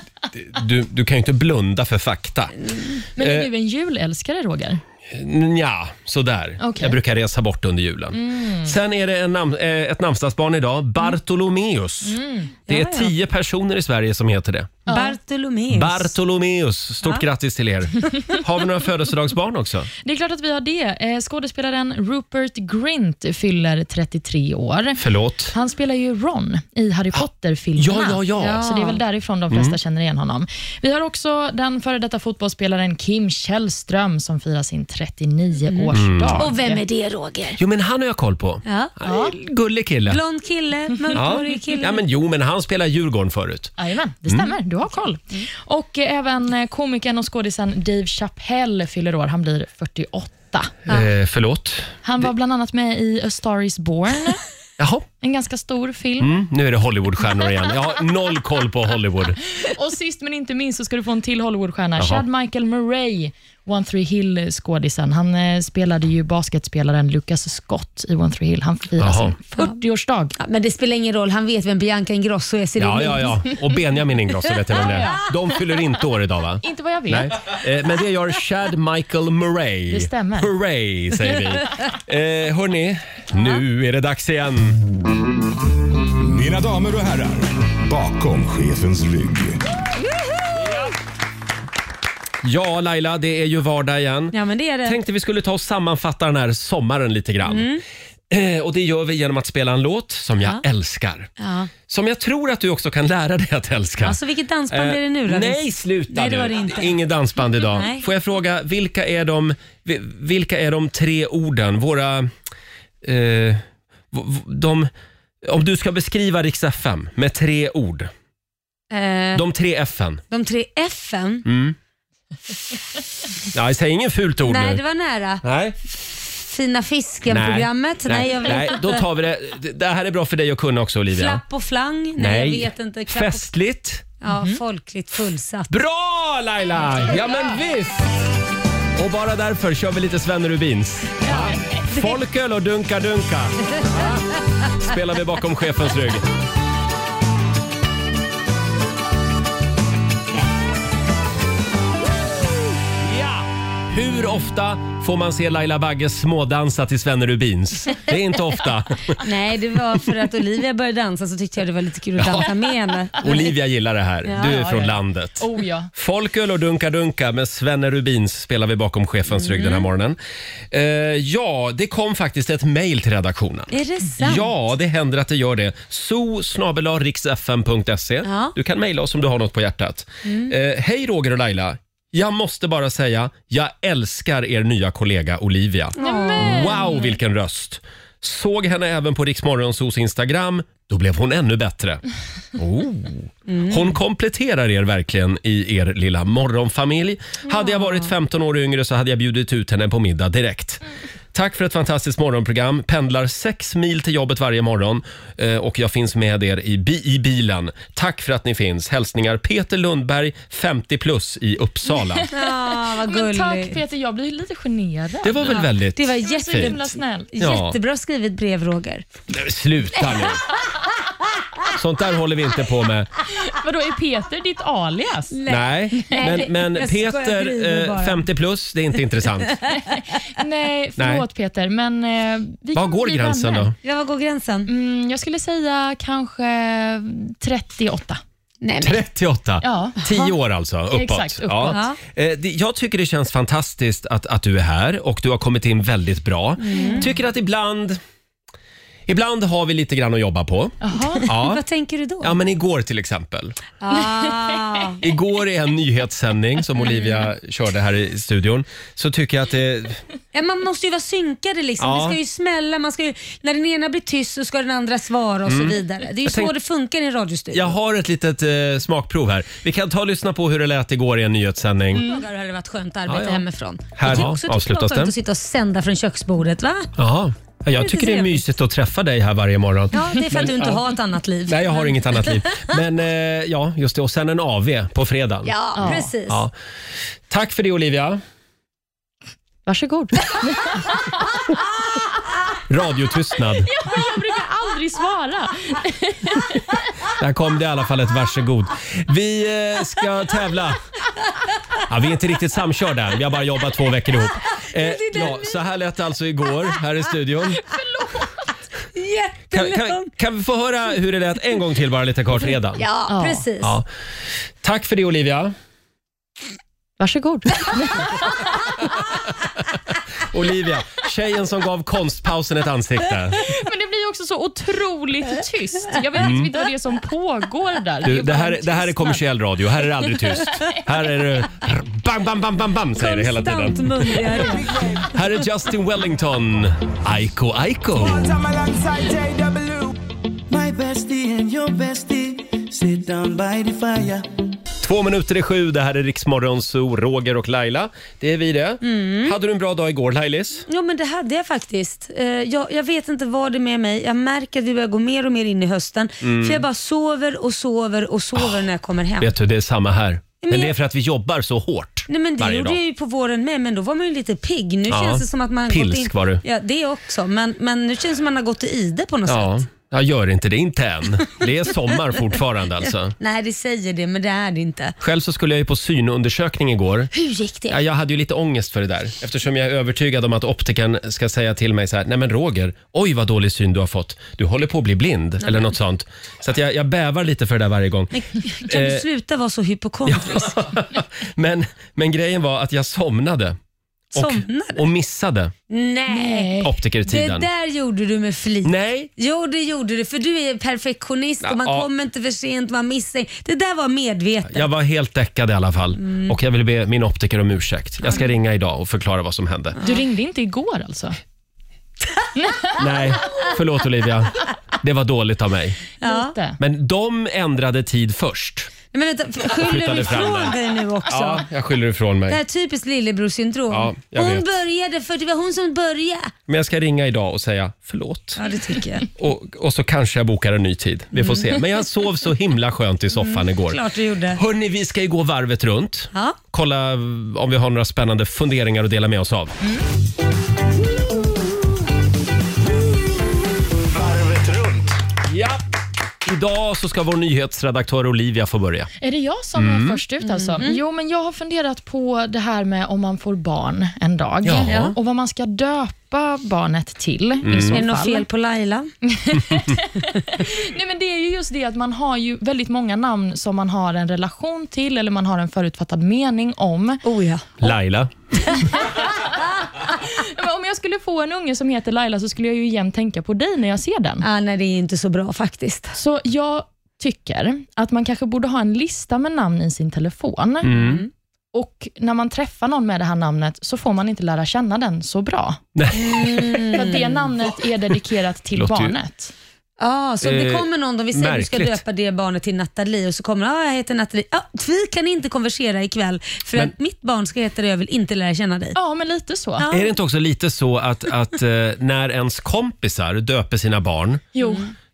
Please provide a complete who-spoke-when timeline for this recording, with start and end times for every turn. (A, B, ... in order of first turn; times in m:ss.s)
0:00.3-0:02.5 A
0:03.2-0:04.8 B
0:03.2-0:03.5 A
0:05.1-0:14.8 A
0:06.6-0:07.0 B
0:08.1-0:08.7 B
0:12.0-0:12.5 B
0:12.7-0:13.1 C
0:14.9-0:15.1 B
0:14.9-0:16.1 C
0:15.7-0:19.9 A
0:20.0-0:25.0 B
0:25.0-0:25.6 A
0:25.5-0:36.8 B
0:27.8-0:28.7 A
0:28.4-0:29.0 C
0:29.5-0:29.8 A
0:35.7-0:37.6 C
0:35.9-0:36.5 A
0:37.6-0:40.2 A
0:38.7-0:38.9 C
0:39.0-0:39.4 B
0:40.1-0:42.0 C
0:41.1-0:43.7 A
0:43.8-0:50.7 B
0:50.9-0:51.9 A
0:52.0-0:54.4 B
0:54.8-0:55.1 A
0:55.2-0:56.3 B
0:56.2-0:59.4 A
0:59.6-1:10.4 B
1:09.0-1:09.4 A
1:10.4-1:13.4 C
1:12.8-1:24.8 A
1:14.8-1:15.2 B
1:16.6-1:17.3 B
1:19.9-1:20.5 B
1:26.2-1:29.6 D
1:32.4-1:37.7 A
1:34.3-1:35.0 C
1:37.4-1:37.8 C
1:38.3-1:41.3 A
1:41.4-1:41.7 C
1:41.9-1:44.2 A
1:44.0-1:47.0 C
1:44.7-1:52.3 A
1:47.6-1:48.0 C
1:53.0-1:54.9 A
1:55.4-1:58.1 A
1:58.9-1:59.4 C
1:59.4-2:00.2 A
2:00.3-2:01.5 C
2:01.4-2:01.8 A
2:03.5-2:04.8 A
2:04.5-2:09.0 C
2:05.4-2:05.8 A
2:07.3-2:11.4 A
2:11.1-2:13.5 C
2:12.2-2:14.1 A
2:14.2-2:15.7 C
2:14.3-2:14.6 B
2:15.7-2:18.1 A
2:19.0-2:24.2 A
2:24.8-2:26.2 A
2:33.0-2:39.2 A
2:39.2-2:43.5 C
2:42.2-2:42.5 A
2:43.2-2:50.2 A
2:44.3-2:45.9 B
2:49.4-2:49.8 C
2:50.7-3:12.0 A
2:53.7-2:54.5 C
2:58.2-2:58.5 C
3:00.3-3:00.5 C
3:06.0-3:06.8 C
3:06.0-3:07.1 B
3:12.6-3:20.8 A
3:13.5-3:14.0 C
3:17.5-3:18.1 C
3:21.3-3:32.3 A
3:32.2-3:35.6 B
3:32.3-3:33.8 C
3:35.2-3:36.8 A
3:35.5-3:39.0 C
3:36.2-3:37.3 B
3:37.4-3:37.8 A
3:39.3-3:40.4 A
3:41.7-3:43.1 A
3:43.4-3:45.4 B
3:45.3-3:48.3 C
3:45.5-3:49.6 A
3:46.0-3:46.3 B
3:49.8-3:53.7 B
3:51.0-3:51.2 A
3:52.8-3:53.8 A
3:53.8-3:54.7 C
3:54.7-3:58.2 B
3:58.6-3:59.0 C
3:58.8-4:08.0 A
3:59.6-4:00.0 B
4:00.9-4:01.8 B
4:01.7-4:02.0 C
4:06.6-4:07.1 C
4:06.7-4:07.1 B
4:09.1-4:11.6 A
4:10.8-4:11.2 B
4:11.3-4:12.4 C
4:12.2-4:13.6 A
4:13.8-4:15.0 C
4:15.0-4:20.0 A
4:16.8-4:17.2 C
4:20.3-4:27.8 C
4:21.8-4:22.2 A
4:25.5-4:26.5 A
4:27.5-4:32.0 A
4:31.9-4:36.9 C
4:33.1-4:33.4 A
4:34.0-4:35.1 A
4:37.0-4:40.8 A
4:37.8-4:38.4 C
4:39.9-4:42.8 C
4:41.5-4:46.5 A
4:45.5-4:46.4 C
4:45.8-4:46.1 B
4:47.3-4:48.2 A
4:49.7-4:50.8 B
4:52.7-4:53.7 A
4:53.7-4:56.7 B
4:57.2-5:00.8 A
5:01.9-5:07.6 A
5:04.6-5:05.6 C
5:07.7-5:08.3 B
5:09.0-5:10.1 C
5:09.5-5:12.8 A
5:12.8-5:13.8 C
5:13.1-5:13.4 B
5:14.6-5:15.5 A
5:17.0-5:18.2 B
5:20.2-5:23.5 A
5:23.4-5:29.2 B
5:26.2-5:26.5 A
5:28.0-5:34.5 A
5:33.0-5:34.7 C
5:34.4-5:35.1 E
5:35.1-5:38.4 A
5:38.0-5:40.0 E
5:40.5-5:44.2 E
5:44.8-5:50.7 A
5:48.8-5:49.4 C
5:50.7-5:59.3 C
5:56.2-5:56.6 A
5:59.2-6:02.8 A
6:00.4-6:00.7 C
6:02.1-6:09.6 C
6:04.9-6:06.4 A
6:09.3-6:13.2 A
6:13.2-6:15.0 C
6:15.0-6:17.1 A
6:17.1-6:17.8 C
6:17.7-6:28.1 A
6:25.4-6:25.7 C
6:28.1-6:30.6 C
6:28.6-6:29.0 A
6:30.1-6:33.6 A
6:34.1-6:35.5 A
6:34.2-6:34.8 C
6:35.7-6:44.7 C
6:36.1-6:36.7 B
6:36.6-6:37.5 A
6:38.6-6:39.1 A
6:41.4-6:41.9 A
6:44.5-6:49.8 A
6:46.0-6:46.3 C
6:49.8-6:51.2 B
6:52.4-6:52.7 B
6:52.8-6:55.8 A
6:56.0-6:56.4 C
6:56.0-6:56.6 B
6:56.6-6:58.7 A
6:58.9-7:01.5 C
6:59.6-7:00.6 A
7:01.1-7:02.4 A
7:02.3-7:06.3 C
7:03.7-7:04.4 A
7:06.5-7:08.4 A
7:08.4-7:09.1 C
7:09.2-7:13.8 A
7:11.2-7:11.6 C
7:13.1-7:14.4 C
7:14.3-7:19.5 A
7:23.9-7:25.0 D
7:25.3-7:25.6 A
7:26.2-7:28.9 A
7:29.0-7:38.3 B
7:29.6-7:30.0 A
7:30.3-7:30.8 C
7:34.4-7:35.0 A
7:37.4-7:37.8 A
7:37.7-7:38.9 C
7:39.1-7:47.0 B
7:47.0-7:47.5 C
7:47.6-7:48.6 A
7:50.0-7:54.2 B
7:54.2-7:56.0 C
7:56.0-8:00.7 B
8:00.6-8:01.0 A
8:00.7-8:01.1 C
8:01.5-8:05.6 B
8:05.8-8:06.8 A
8:06.0-8:07.2 C
8:06.8-8:09.3 B
8:08.6-8:09.0 A
8:09.8-8:18.8 C
8:10.2-8:11.8 A
8:18.8-8:19.6 B
8:19.6-8:19.9 C
8:19.7-8:24.2 A
8:24.4-8:24.7 B
8:24.4-8:24.6 C